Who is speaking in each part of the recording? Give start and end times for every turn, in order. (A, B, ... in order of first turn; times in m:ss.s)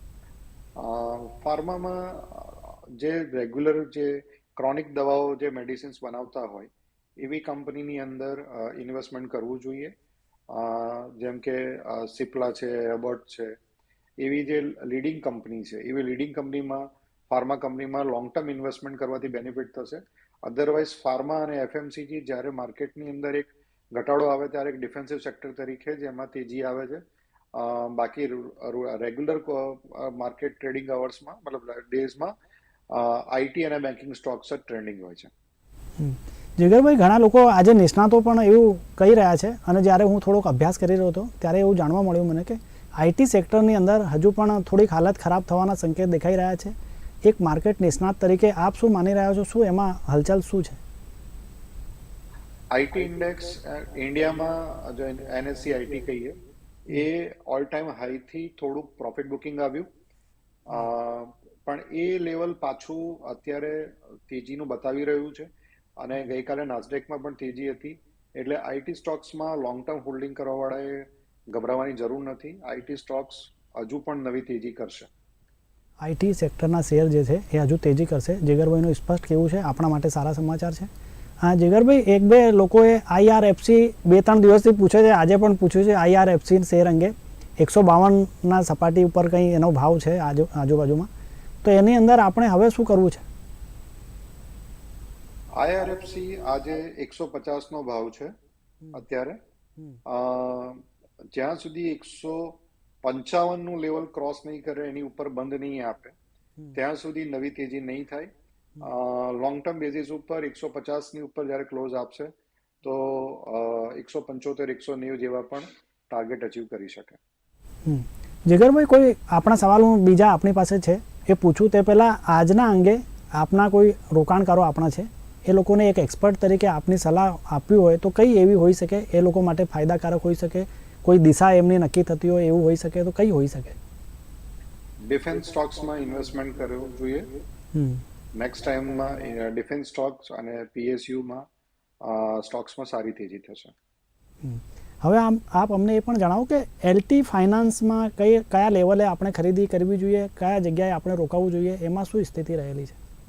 0:00.8-0:09.9 A
0:10.5-0:13.6 A
0:14.2-0:27.0 A
0:27.5-0:32.4 A
0:32.9-0:35.3 A
0:36.0-0:50.8 B
0:52.7-0:56.3 A
0:56.9-0:59.9 A
1:00.7-1:05.5 A
1:06.0-1:15.1 A
1:16.0-1:20.9 B
1:21.4-1:31.1 B
1:31.6-1:33.2 B
1:35.6-1:38.3 A
1:38.9-1:39.4 A
1:40.0-1:46.2 A
1:46.7-1:52.3 A
1:52.8-1:57.2 A
1:57.8-2:13.8 B
2:15.1-2:17.3 A
2:17.7-2:18.0 B
2:18.3-2:21.5 A
2:22.0-2:23.7 A
2:24.4-2:33.0 B